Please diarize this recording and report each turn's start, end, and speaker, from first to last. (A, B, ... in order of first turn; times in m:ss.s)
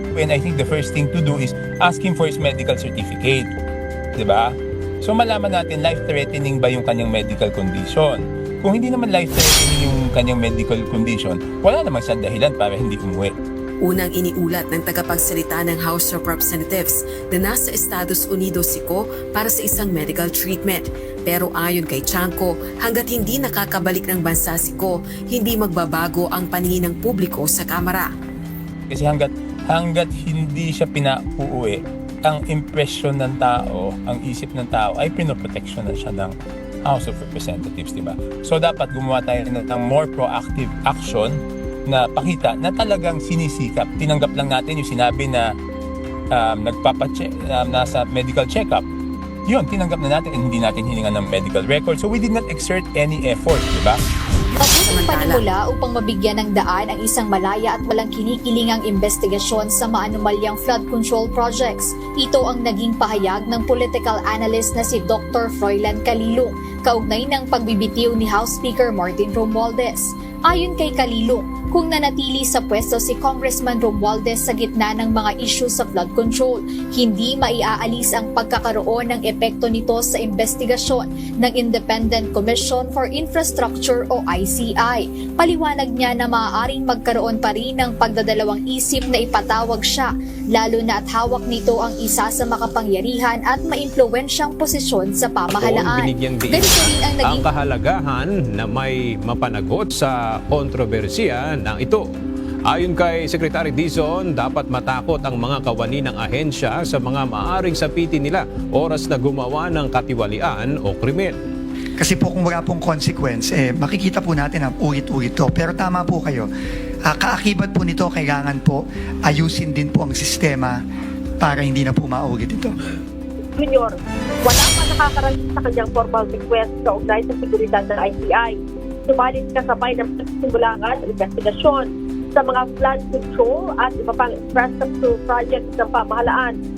0:00.1-0:03.5 A
0:04.2-0:13.3 A
0:13.8-0:28.1 B
0:28.9-0:36.3 A
0:36.8-0:45.5 A
0:46.3-0:48.8 A
0:49.5-0:54.0 A
0:54.6-1:37.5 C
0:54.6-0:55.4 B
1:35.5-1:42.0 D
1:42.7-1:51.4 D
1:52.0-1:56.5 E
1:57.0-2:00.8 E
2:01.4-2:02.7 E
2:03.6-2:16.6 F